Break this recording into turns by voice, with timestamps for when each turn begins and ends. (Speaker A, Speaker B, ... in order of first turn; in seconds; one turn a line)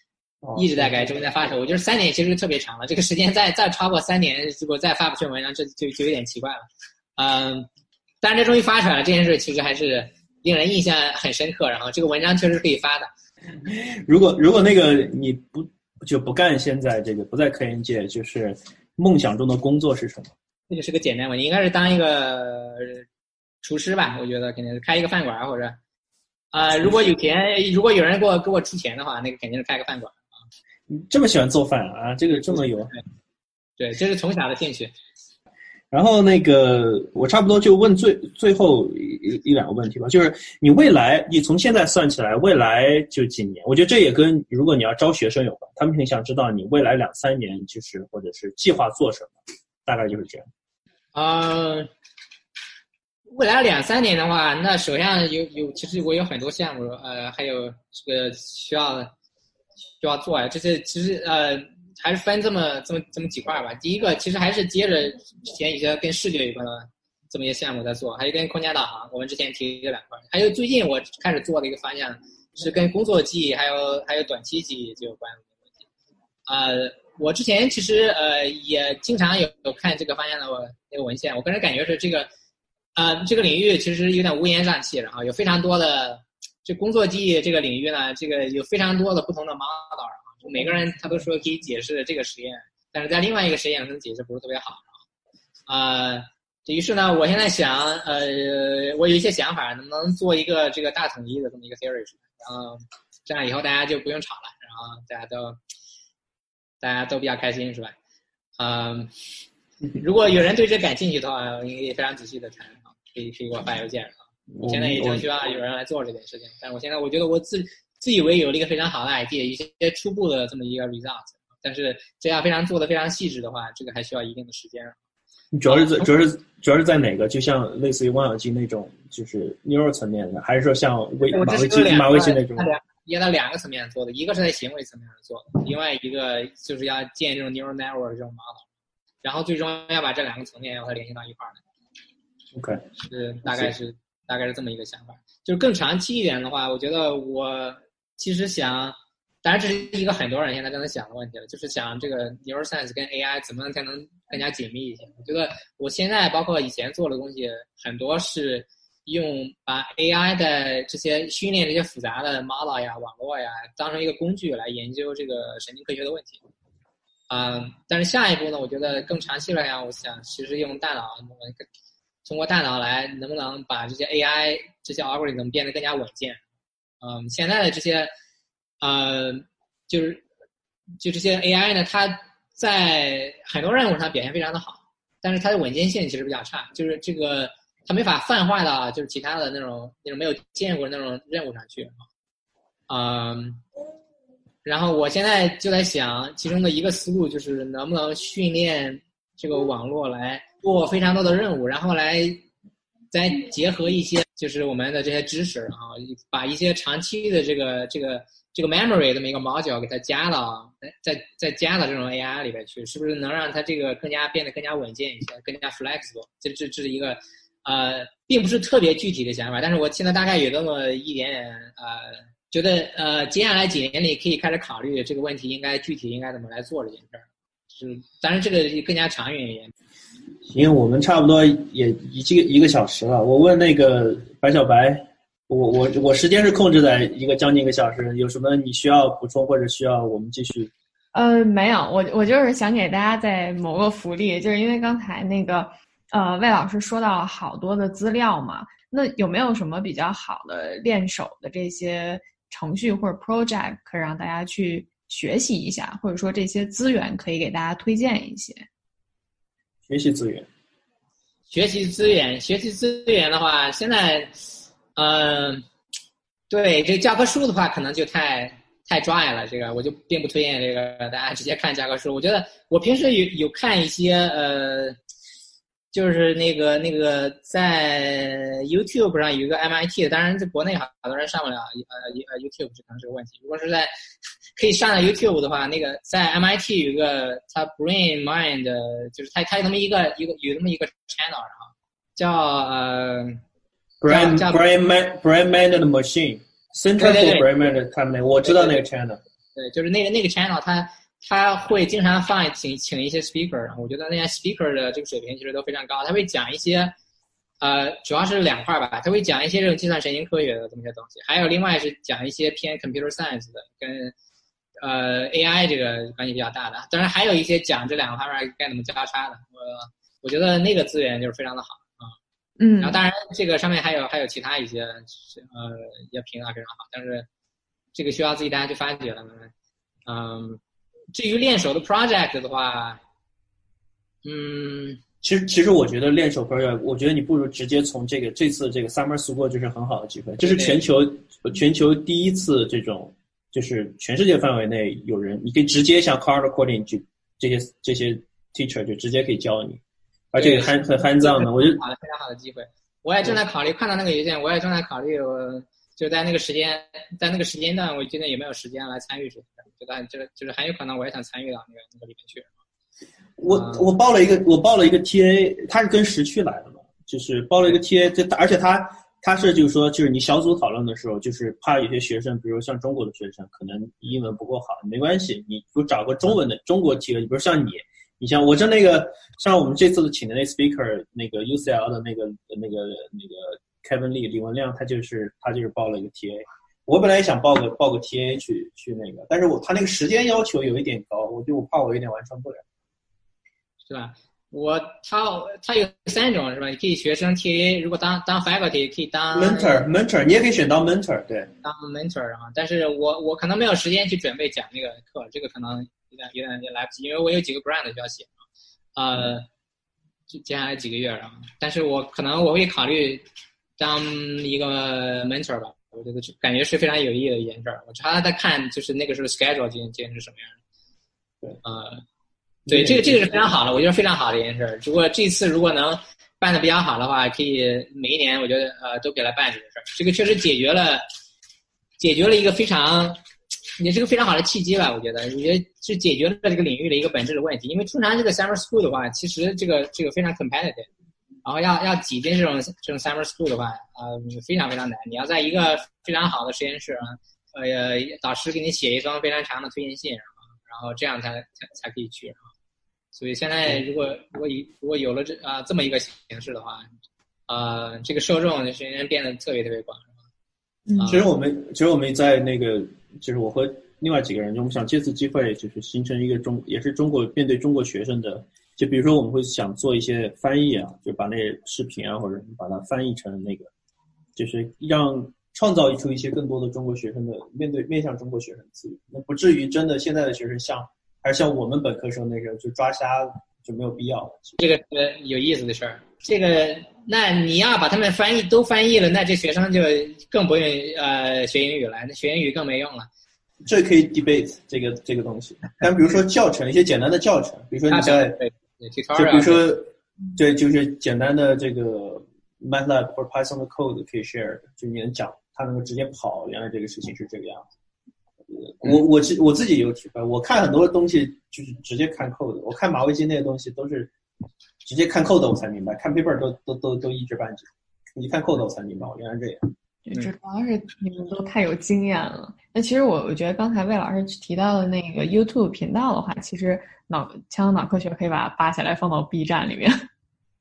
Speaker A: 0.4-1.4
Speaker B: 0.6-7.7
Speaker B: 8.2-13.1
Speaker A: 13.6-20.3
Speaker B: 20.7-23.1
Speaker B: 23.6-25.8
Speaker B: 26.5-30.2
Speaker A: 30.9-33.0
Speaker B: 33.8-34.9
Speaker A: 35.9-50.5
Speaker B: 51.1-51.9
Speaker B: 53.3-59.1
Speaker B: 60.0-75.8
Speaker B: 76.5-82.3
Speaker B: 82.9-94.9
Speaker B: 95.7-105.6
Speaker B: 106.8-107.9
Speaker B: 108.6-109.1
Speaker B: 110.0-125.0
Speaker A: 114.5-115.3
Speaker A: 125.5-132.7
Speaker B: 125.7-126.1
Speaker B: 131.2-138.7
Speaker B: 139.2-141.6
Speaker A: 142.5-142.8
Speaker B: 143.0-166.4
Speaker A: 143.4-143.7
Speaker B: 167.3-171.7
Speaker B: 172.2-176.4
Speaker B: 177.0-178.1
Speaker B: 178.8-180.2
Speaker B: 181.0-192.0
Speaker B: 192.9-193.6
Speaker B: 194.6-202.4
Speaker B: 203.1-229.7
Speaker A: 230.5-240.7
Speaker C: 241.1-258.6
Speaker A: 259.9-260.5
Speaker B: 261.5-264.3
Speaker B: 264.9-265.6
Speaker B: 266.5-275.0
Speaker B: 275.9-283.9
Speaker B: 284.6-293.4
Speaker A: 294.0-299.2
Speaker B: 294.1-294.6
Speaker B: 297.0-297.5
Speaker B: 298.4-298.9
Speaker B: 299.5-306.9
Speaker B: 307.6-314.1
Speaker B: 314.8-322.1
Speaker C: 322.6-323.0
Speaker B: 322.8-327.3
Speaker B: 327.9-329.5
Speaker B: 330.1-330.6
Speaker B: 331.1-333.0
Speaker B: 334.2-335.0
Speaker A: 335.2-349.8
Speaker B: 340.4-340.8
Speaker A: 350.3-351.8
Speaker B: 350.3-362.5
Speaker A: 363.4-392.6
Speaker B: 363.5-363.9
Speaker B: 393.8-399.8
Speaker A: 399.3-401.5
Speaker B: 401.6-408.3
Speaker B: 408.9-409.5
Speaker B: 410.3-413.2
Speaker B: 413.8-420.6
Speaker B: 421.6-422.0
Speaker A: 422.7-423.4
Speaker B: 422.7-431.1
Speaker B: 432.0-433.2
Speaker B: 433.8-440.9
Speaker B: 441.4-452.5
Speaker B: 453.1-456.9
Speaker B: 457.5-460.1
Speaker B: 461.0-461.2
Speaker A: 461.1-473.7
Speaker A: 474.4-484.6
Speaker B: 484.6-493.1
Speaker A: 493.6-498.4
Speaker B: 497.9-499.6
Speaker A: 499.1-507.6
Speaker A: 508.5-514.1
Speaker A: 514.8-519.7
Speaker C: 520.0-530.0